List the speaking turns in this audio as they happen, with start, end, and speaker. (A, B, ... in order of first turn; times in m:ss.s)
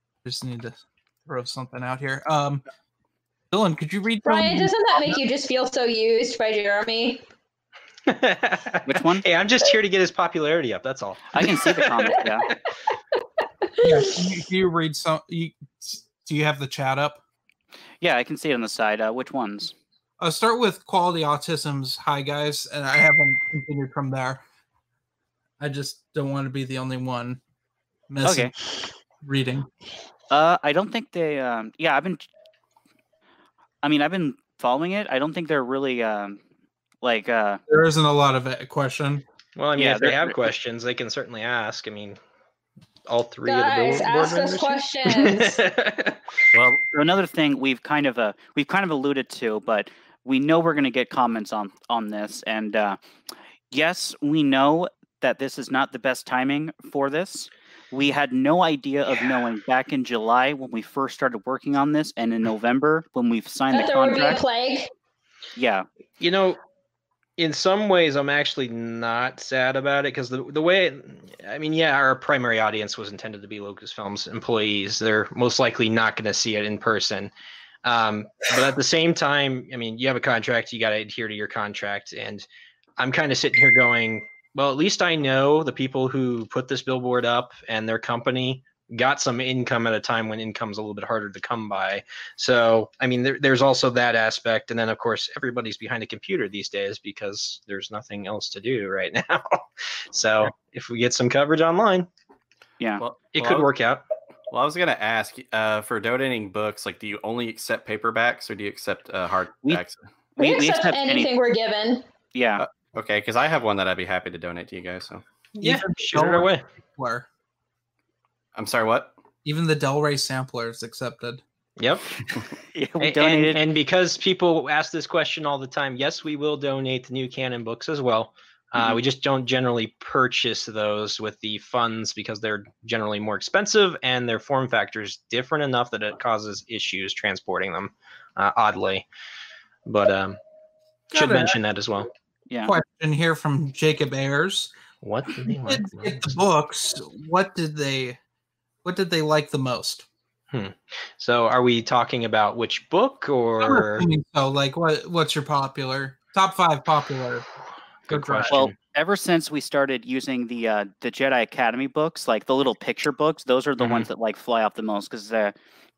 0:00.2-0:02.6 A
0:03.5-0:05.2 A
0:04.2-0:07.2 B
0:08.0-0:12.5 C
0:08.9-0:09.3 D
0:11.3-0:12.5 D
0:13.8-0:17.2 A
0:18.0-0:19.7 D
0:20.2-0:24.4 A
0:25.6-0:27.4 A
0:28.1-0:28.5 A
0:28.2-0:28.5 D
0:29.2-0:29.7 A
0:30.3-0:32.3 D
0:33.8-0:36.4 D
0:37.0-0:37.6 D
0:37.7-0:39.2 A
0:39.6-0:42.2 C
0:39.8-0:40.3 D
0:43.1-0:46.4 C
0:43.4-0:45.6 B
0:46.5-0:46.8 E
0:46.9-0:53.0 D
0:53.7-1:04.4 D
1:03.7-1:04.9 B
1:05.6-1:05.9 D
1:06.2-1:06.6 C
1:07.4-1:17.3 C
1:17.8-1:22.5 C
1:23.0-1:42.1 C
1:43.0-1:43.7 E
1:43.3-1:44.0 C
1:44.5-1:50.1 E
1:50.4-1:51.3 D
1:50.4-1:52.0 B
1:52.4-1:52.6 D
1:52.6-1:55.2 E
1:55.6-1:56.6 C
1:55.6-1:57.3 A
1:58.6-1:59.1 E
1:59.4-2:01.4 A
2:01.8-2:02.1 C
2:02.8-2:03.6 D
2:03.0-2:19.1 C
2:19.9-2:20.4 C
2:21.1-2:22.1 C
2:21.1-2:21.6 A
2:22.6-2:24.7 A
2:25.0-2:26.3 C
2:25.6-2:28.2 A
2:28.8-2:30.1 A
2:30.5-2:34.1 C
2:33.6-2:37.5 A
2:38.1-2:38.7 C
2:38.1-2:38.7 A
2:38.5-2:45.5 D
2:43.8-2:44.1 C